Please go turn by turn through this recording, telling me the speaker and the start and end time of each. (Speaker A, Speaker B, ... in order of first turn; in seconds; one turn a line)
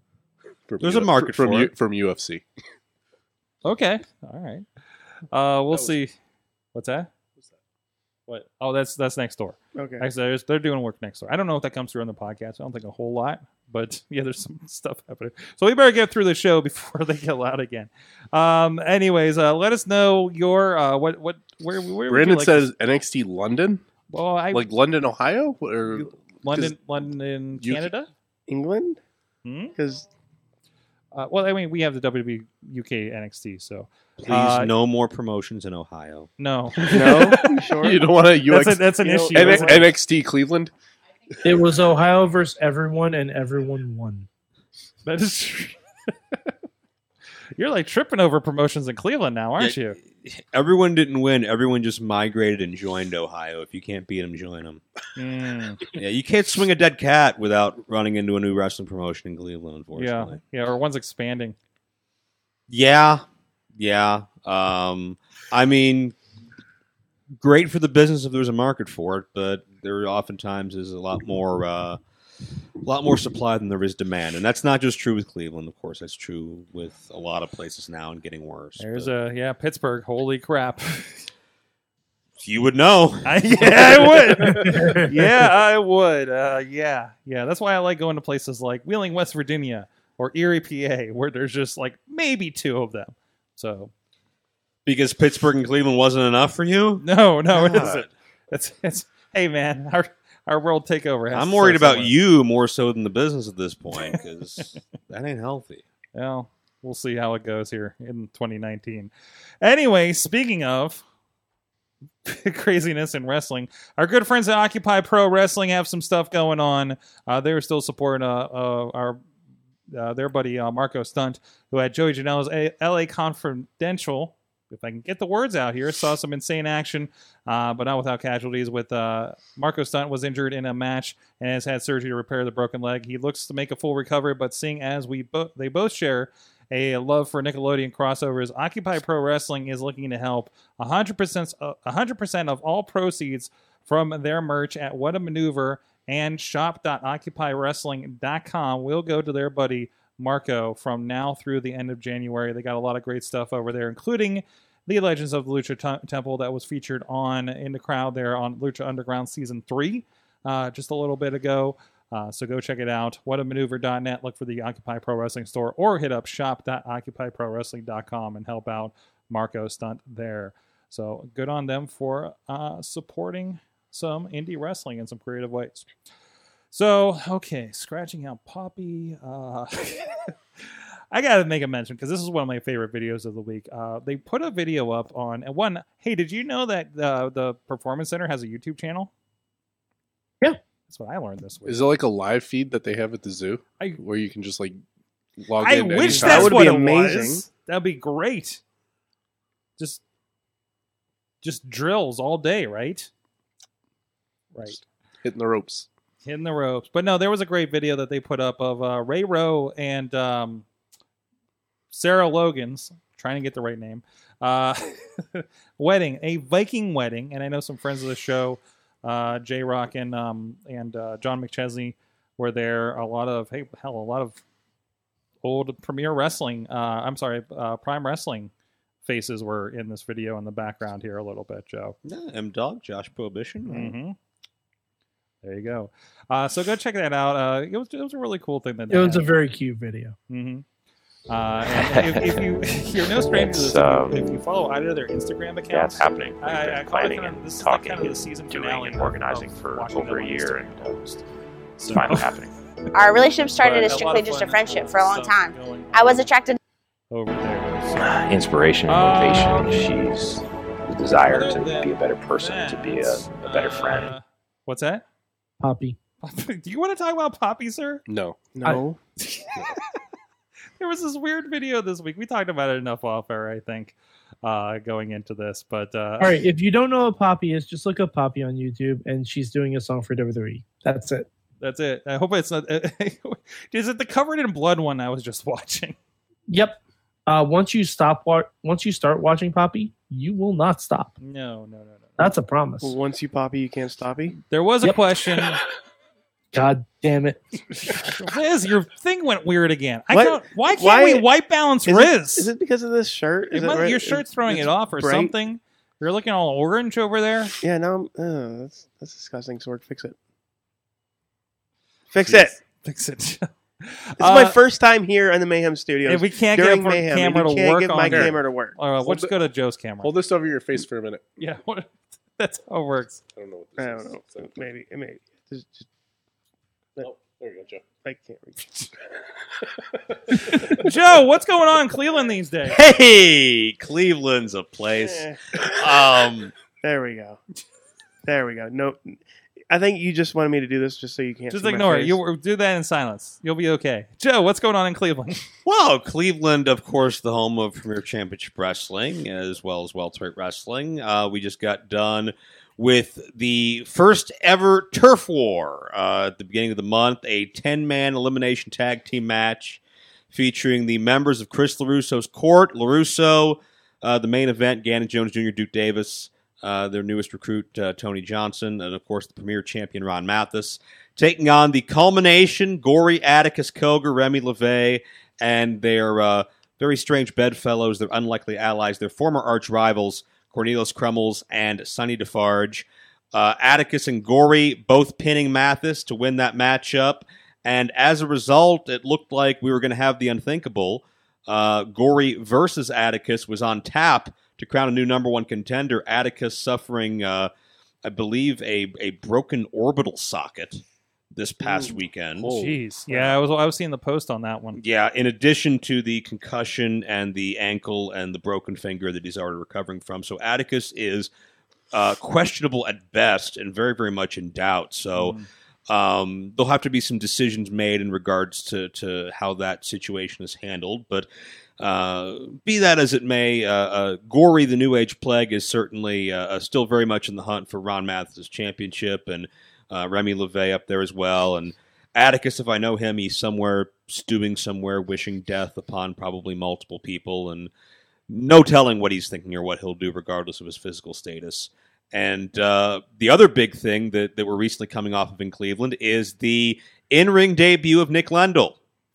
Speaker A: 0.7-2.4
Speaker B: 0.8-1.7
Speaker C: 3.6-4.7
Speaker C: 5.3-6.1
Speaker C: 6.7-7.1
Speaker C: 8.3-22.7
Speaker D: 9.7-10.1
Speaker A: 22.1-23.8
Speaker C: 24.1-24.7
Speaker A: 24.5-26.7
Speaker C: 25.9-28.1
Speaker A: 27.6-27.9
Speaker D: 28.5-29.0
Speaker C: 29.4-29.7
Speaker D: 29.8-30.1
Speaker C: 31.1-34.7
Speaker B: 34.2-36.3
Speaker C: 36.4-37.5
Speaker D: 36.9-38.2
Speaker A: 36.9-40.7
Speaker C: 38.5-39.9
Speaker D: 39.0-39.9
Speaker E: 41.4-44.3
Speaker C: 45.0-45.8
Speaker C: 47.5-50.0
Speaker B: 49.6-54.8
Speaker C: 55.1-55.9
Speaker B: 55.9-60.4
Speaker C: 60.0-61.5
Speaker B: 62.7-63.2
Speaker B: 63.8-66.2
Speaker B: 67.4-72.0
Speaker B: 72.8-79.1
Speaker C: 78.8-81.3
Speaker B: 82.4-84.6
Speaker C: 83.2-93.9
Speaker B: 94.8-98.1
Speaker C: 97.0-102.1
Speaker B: 101.3-105.8
Speaker C: 106.1-111.0
Speaker C: 112.2-119.2
Speaker C: 119.9-175.9
Speaker C: 176.7-180.3
Speaker C: 181.1-189.1
Speaker C: 190.9-191.8
Speaker A: 191.7-194.8
Speaker A: 195.4-196.7
Speaker C: 195.6-198.6
Speaker D: 196.1-197.4
Speaker C: 201.4-203.1
Speaker A: 204.7-205.9
Speaker C: 206.2-210.7
Speaker C: 211.9-224.4
Speaker C: 225.4-228.5
Speaker C: 229.1-231.9
Speaker B: 232.0-233.9
Speaker C: 233.7-234.2
Speaker C: 235.4-239.3
Speaker E: 238.9-240.2
Speaker C: 240.3-240.6
Speaker C: 241.3-250.8
Speaker F: 241.9-242.6
Speaker F: 243.3-244.2
Speaker G: 245.7-246.4
Speaker F: 245.7-250.5
Speaker G: 247.0-250.5
Speaker C: 251.8-252.4
Speaker G: 251.9-252.4
Speaker F: 251.9-252.4
Speaker G: 252.9-256.6
Speaker C: 253.6-256.3
Speaker C: 257.1-258.3
Speaker F: 258.2-264.1
Speaker C: 258.8-260.0
Speaker C: 261.1-265.1
Speaker E: 265.6-266.0
Speaker C: 266.2-268.0
Speaker A: 268.1-268.5
Speaker D: 268.5-269.0
Speaker C: 268.6-269.8
Speaker C: 270.8-276.4
Speaker E: 276.2-281.3
Speaker C: 281.6-285.9
Speaker E: 286.5-291.2
Speaker C: 291.2-292.2
Speaker E: 292.2-292.9
Speaker D: 292.8-294.4
Speaker C: 294.5-295.6
Speaker E: 294.8-295.1
Speaker E: 296.5-298.0
Speaker C: 297.8-302.5
Speaker D: 300.1-301.2
Speaker D: 301.9-305.3
Speaker C: 303.5-307.6
Speaker D: 307.6-310.2
Speaker D: 312.1-312.6
Speaker C: 312.2-314.6
Speaker D: 314.2-318.8
Speaker C: 316.1-320.1
Speaker A: 319.0-319.3
Speaker A: 320.0-321.2
Speaker C: 321.4-323.2
Speaker A: 323.4-324.5
Speaker D: 323.8-325.9
Speaker A: 327.0-327.9
Speaker D: 328.0-328.9
Speaker A: 329.6-330.7
Speaker C: 330.5-332.8
Speaker B: 332.7-336.5
Speaker D: 335.0-335.4
Speaker D: 336.8-337.4
Speaker D: 338.2-342.2
Speaker C: 341.5-345.4
Speaker B: 345.6-359.8
Speaker B: 360.3-397.5
Speaker B: 398.0-400.8
Speaker B: 401.3-402.6
Speaker D: 401.6-401.9
Speaker A: 402.4-403.3
Speaker C: 402.5-404.8
Speaker B: 404.8-411.3
Speaker B: 411.9-415.4
Speaker C: 415.1-415.5
Speaker B: 415.9-421.3
Speaker B: 421.8-437.7
Speaker B: 438.3-448.8